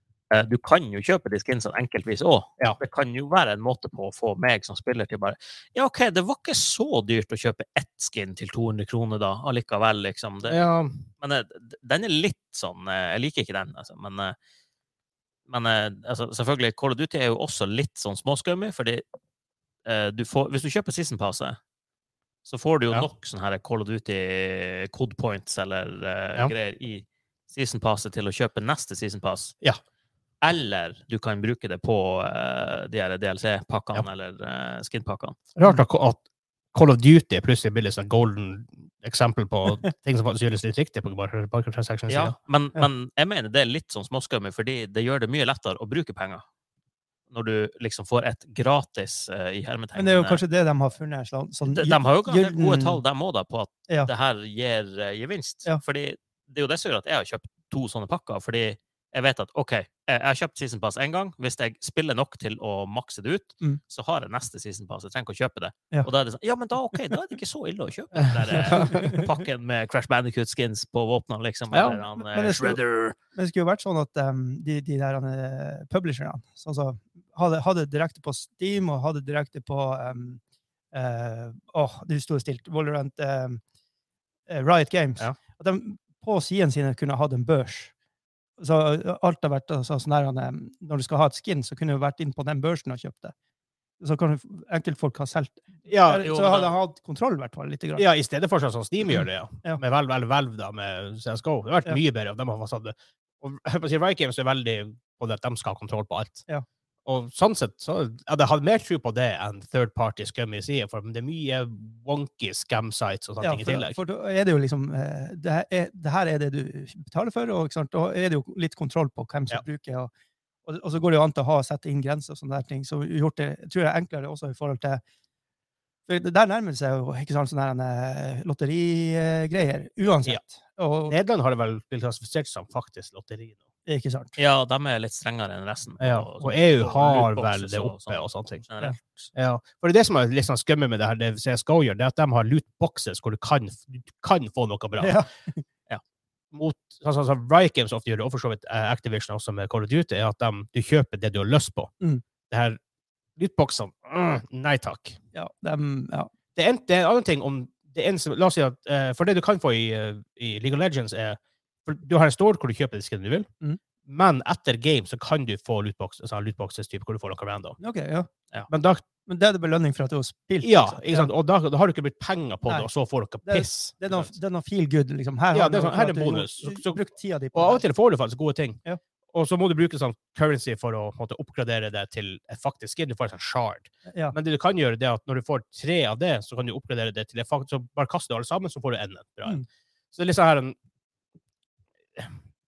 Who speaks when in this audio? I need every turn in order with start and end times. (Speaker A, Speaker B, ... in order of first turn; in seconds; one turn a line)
Speaker A: 0.3-10.6
Speaker B: 10.5-11.1
Speaker A: 11.2-14.4
Speaker A: 15.5-19.0
Speaker A: 19.9-21.6
Speaker A: 22.5-29.6
Speaker A: 30.4-35.4
Speaker B: 35.6-36.2
Speaker B: 36.7-42.4
Speaker A: 42.1-46.4
Speaker A: 47.3-50.4
Speaker C: 50.0-53.0
Speaker A: 51.7-73.2
Speaker B: 68.2-69.2
Speaker C: 68.7-69.3
Speaker B: 71.7-72.0
Speaker C: 72.2-72.8
Speaker C: 73.3-80.4
Speaker C: 80.9-83.6
Speaker C: 84.5-87.9
Speaker C: 88.6-93.3
Speaker C: 94.0-98.1
Speaker B: 95.9-96.3
Speaker A: 96.2-96.7
Speaker B: 98.0-106.5
Speaker B: 107.1-114.0
Speaker C: 113.4-120.1
Speaker C: 120.7-125.0
Speaker C: 126.1-131.2
Speaker B: 131.1-133.6
Speaker C: 133.9-134.4
Speaker A: 134.4-139.3
Speaker B: 136.0-138.6
Speaker B: 139.3-145.2
Speaker C: 145.0-145.6
Speaker B: 146.5-151.9
Speaker B: 152.5-152.8
Speaker B: 153.4-155.2
Speaker C: 155.3-156.3
Speaker B: 156.6-163.5
Speaker B: 164.1-167.8
Speaker C: 167.8-168.3
Speaker B: 168.7-169.0
Speaker C: 169.3-171.3
Speaker B: 170.6-174.3
Speaker C: 173.4-177.8
Speaker B: 175.5-177.0
Speaker B: 177.5-178.8
Speaker B: 179.3-190.8
Speaker C: 184.1-184.3